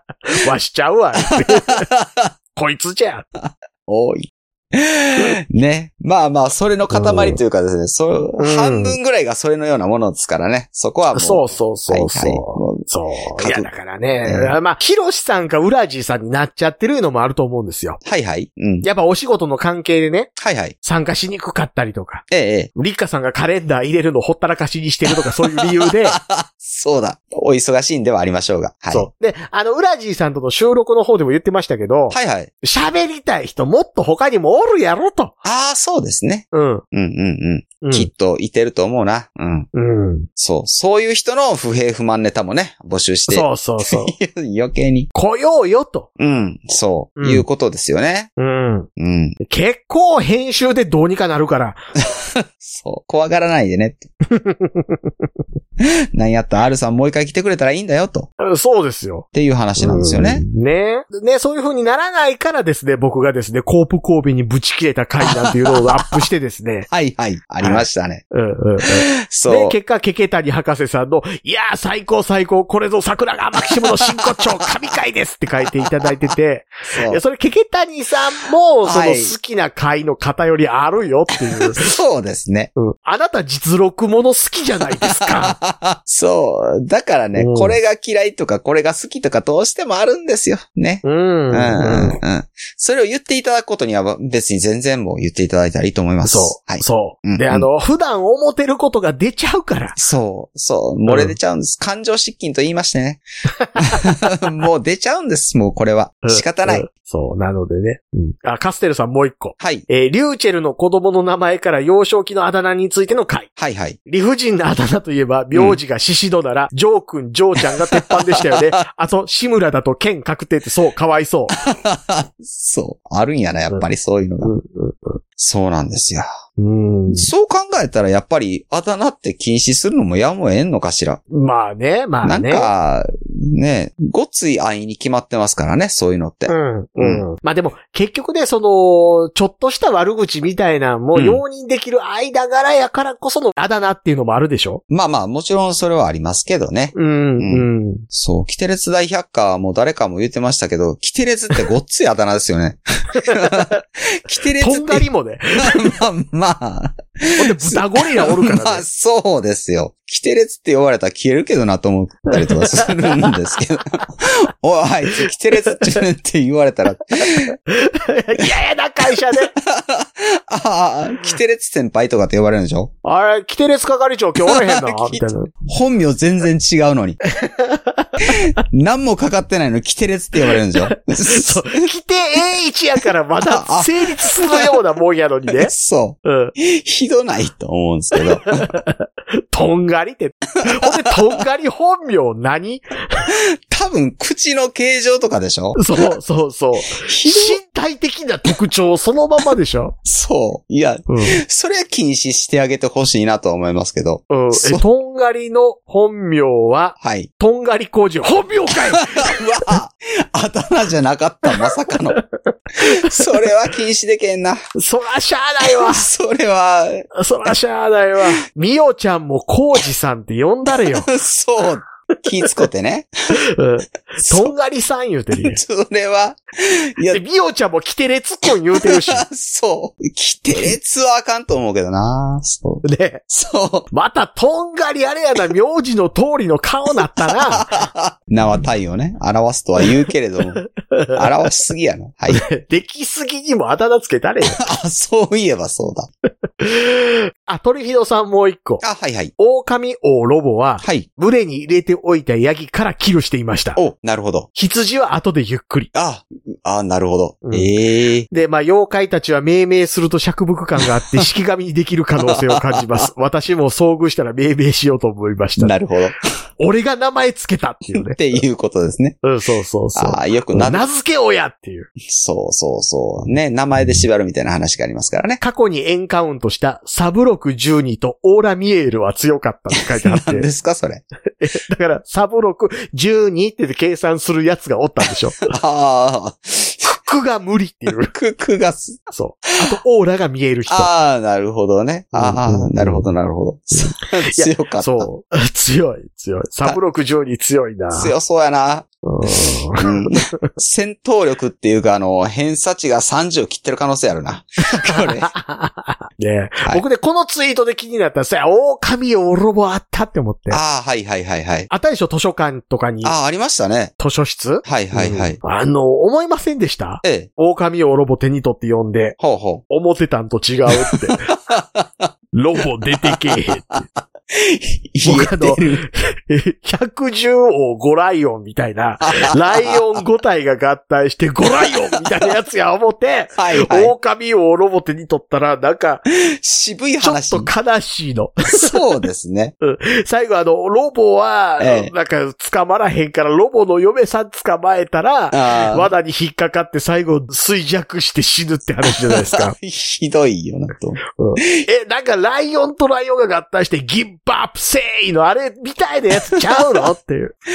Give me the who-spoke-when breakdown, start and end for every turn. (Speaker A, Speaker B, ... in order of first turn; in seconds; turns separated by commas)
Speaker A: 0.2-1.9, Speaker B: 1.3-2.3, Speaker A: 2.5-3.3, Speaker B: 3.4-13.7, Speaker A: 6.9-7.4, Speaker A: 8.4-9.0, Speaker A: 11.1-18.0, Speaker B: 14.2-14.5, Speaker B: 18.0-18.9, Speaker A: 18.8-22.2, Speaker B: 20.4-20.7, Speaker B: 22.3-22.7, Speaker A: 22.7-26.2, Speaker B: 25.4-29.1, Speaker A: 28.9-35.3, Speaker B: 32.1-32.5, Speaker B: 35.4-39.7, Speaker A: 36.5-36.8, Speaker A: 37.8-38.1, Speaker A: 39.7-40.3, Speaker B: 40.4-45.1, Speaker A: 43.3-44.1, Speaker A: 45.1-46.1, Speaker B: 46.2-48.3, Speaker A: 47.2-47.4, Speaker A: 48.4-48.9, Speaker B: 49.0-49.4, Speaker A: 49.4-51.8, Speaker B: 52.0-54.1, Speaker A: 54.3-55.1, Speaker B: 55.8-58.3, Speaker A: 58.4-59.2, Speaker B: 59.3-60.4, Speaker A: 59.8-66.9, Speaker B: 65.2-66.0, Speaker B: 66.9-68.2, Speaker A: 67.6-82.0, Speaker B: 68.8-69.8, Speaker B: 73.7-74.5, Speaker B: 76.9-77.2, Speaker B: 78.8-79.3, Speaker B: 81.6-82.7, Speaker A: 82.8-85.6, Speaker B: 84.9-97.7, Speaker A: 87.3-87.8, Speaker A: 91.0-92.2, Speaker A: 96.2-100.0, Speaker B: 100.0-103.2, Speaker A: 101.0-101.3, Speaker A: 103.6-104.0, Speaker B: 103.8-106.9, Speaker A: 106.2-113.5, Speaker B: 109.6-109.8, Speaker B: 113.6-114.0, Speaker A: 114.0-121.5, Speaker B: 115.5-115.8, Speaker B: 117.7-118.7, Speaker B: 121.5-124.5, Speaker A: 124.4-125.2, Speaker B: 125.4-126.3, Speaker A: 126.6-127.3, Speaker B: 127.1-131.2, Speaker A: 131.3-132.7, Speaker B: 132.2-137.2, Speaker A: 136.5-144.8, Speaker B: 141.1-141.4, Speaker B: 144.9-155.1, Speaker A: 146.9-148.0, Speaker A: 153.2-153.8, Speaker A: 154.6-155.9, Speaker B: 155.6-167.6, Speaker A: 157.3-158.8, Speaker A: 162.3-163.3, Speaker A: 167.7-169.5, Speaker B: 169.5-172.9, Speaker A: 173.0-175.5, Speaker B: 174.4-177.2, Speaker A: 177.3-178.6, Speaker B: 178.2-181.9, Speaker A: 180.5-185.7, Speaker B: 183.5-184.8, Speaker B: 185.6-188.7, Speaker A: 186.2-186.5, Speaker A: 188.2-193.3, Speaker B: 190.8-191.4, Speaker B: 193.3-195.9, Speaker A: 195.8-199.9, Speaker B: 196.9-197.6, Speaker B: 200.0-204.8, Speaker A: 201.1-201.4, Speaker A: 204.3-209.8, Speaker B: 207.0-207.3, Speaker B: 208.7-212.2, Speaker A: 211.6-213.3, Speaker B: 212.8-214.7, Speaker A: 214.7-216.1, Speaker B: 215.6-217.1, Speaker A: 217.1-221.1, Speaker B: 220.7-223.3, Speaker A: 223.3-225.6, Speaker B: 224.2-224.5, Speaker B: 225.3-227.2, Speaker A: 227.1-229.2, Speaker B: 228.5-233.9, Speaker A: 232.8-233.2, Speaker A: 233.9-237.7, Speaker B: 237.3-240.6, Speaker A: 240.8-241.2, Speaker B: 241.1-242.4, Speaker A: 242.3-244.6, Speaker B: 244.5-246.1, Speaker A: 246.6-248.8, Speaker B: 248.8-249.3, Speaker A: 249.4-253.8, Speaker B: 250.8-251.1, Speaker B: 253.8-254.5, Speaker A: 254.5-255.9, Speaker B: 255.9-258.3, Speaker A: 257.4-257.7, Speaker A: 258.3-265.8, Speaker B: 262.2-263.1, Speaker B: 265.6-266.2, Speaker A: 266.6-268.4, Speaker B: 267.9-269.2, Speaker A: 269.2-271.9, Speaker B: 269.9-270.9, Speaker B: 272.0-275.4, Speaker A: 275.4-280.5, Speaker B: 279.8-281.0, Speaker A: 281.4-285.5, Speaker B: 285.4-286.9, Speaker A: 286.9-288.1, Speaker B: 287.9-289.0, Speaker A: 289.1-290.9, Speaker B: 290.7-295.1, Speaker A: 292.1-293.1, Speaker A: 293.7-298.1, Speaker B: 297.9-305.3, Speaker A: 299.0-300.4, Speaker A: 304.7-310.6, Speaker B: 310.5-311.7, Speaker A: 311.7-313.1, Speaker B: 313.0-313.9, Speaker A: 314.0-319.2, Speaker B: 314.6-315.4, Speaker B: 317.0-317.3, Speaker B: 319.2-319.6, Speaker A: 319.7-321.3, Speaker B: 320.8-322.1, Speaker A: 322.3-323.8, Speaker B: 323.0-325.8, Speaker A: 325.0-336.0, Speaker B: 329.0-329.8, Speaker B: 333.4-333.9, Speaker B: 336.3-337.5, Speaker A: 337.0-338.8, Speaker B: 338.5-339.5, Speaker A: 339.6-349.5, Speaker B: 341.6-341.9, Speaker B: 345.3-345.9, Speaker B: 349.1-351.6, Speaker A: 351.1-357.3, Speaker B: 356.4-356.6